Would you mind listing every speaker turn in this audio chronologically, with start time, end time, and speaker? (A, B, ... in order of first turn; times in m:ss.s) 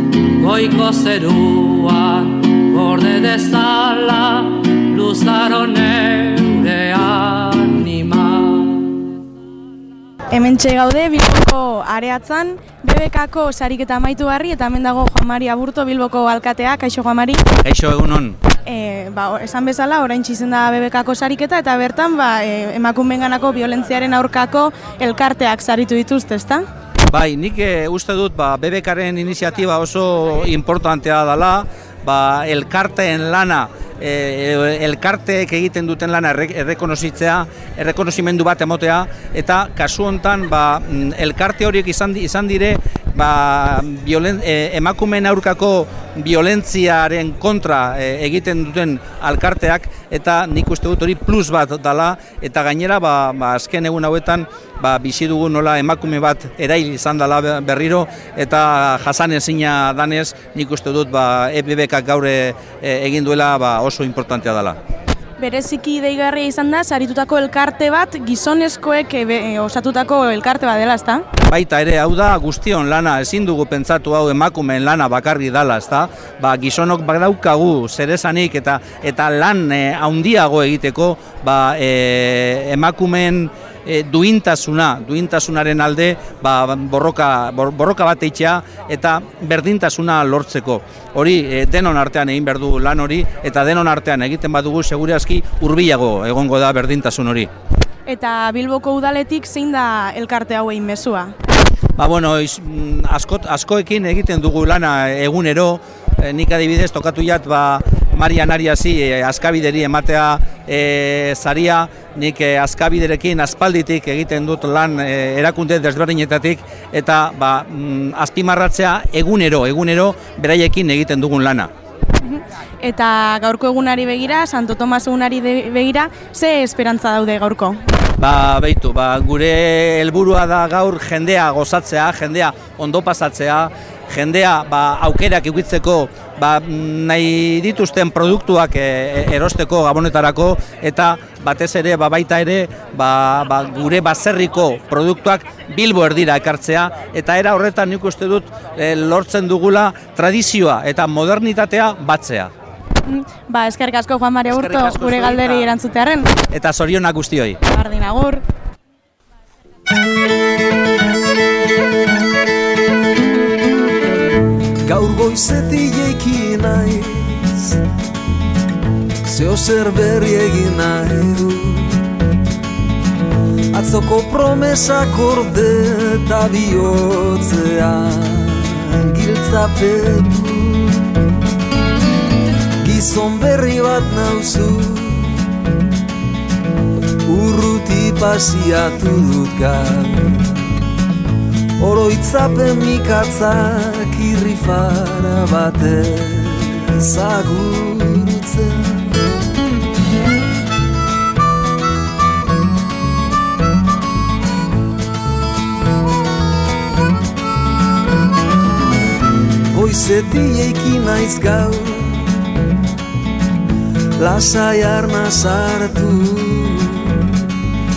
0:00.4-0:08.9 A
0:10.3-0:17.4 B
0:17.6-0:18.4 C
0:18.6-0:26.6 B
0:27.1-1:04.8 C
1:05.4-1:11.3 B
1:11.4-1:37.5 C
1:38.0-1:41.3 B
1:42.0-2:01.7 C
2:02.2-2:07.8 B
2:08.2-2:32.5 C
2:33.0-2:36.3 B
2:34.5-2:35.7 C
2:36.5-2:37.6 C
2:37.6-2:38.4 B
2:44.8-2:47.8 D
2:49.2-2:52.1 D
2:53.7-3:01.2 D
3:02.8-3:05.4 D
3:07.2-3:10.5 D
3:11.8-3:19.2 D
3:29.7-3:32.4 D
3:34.2-3:37.2 D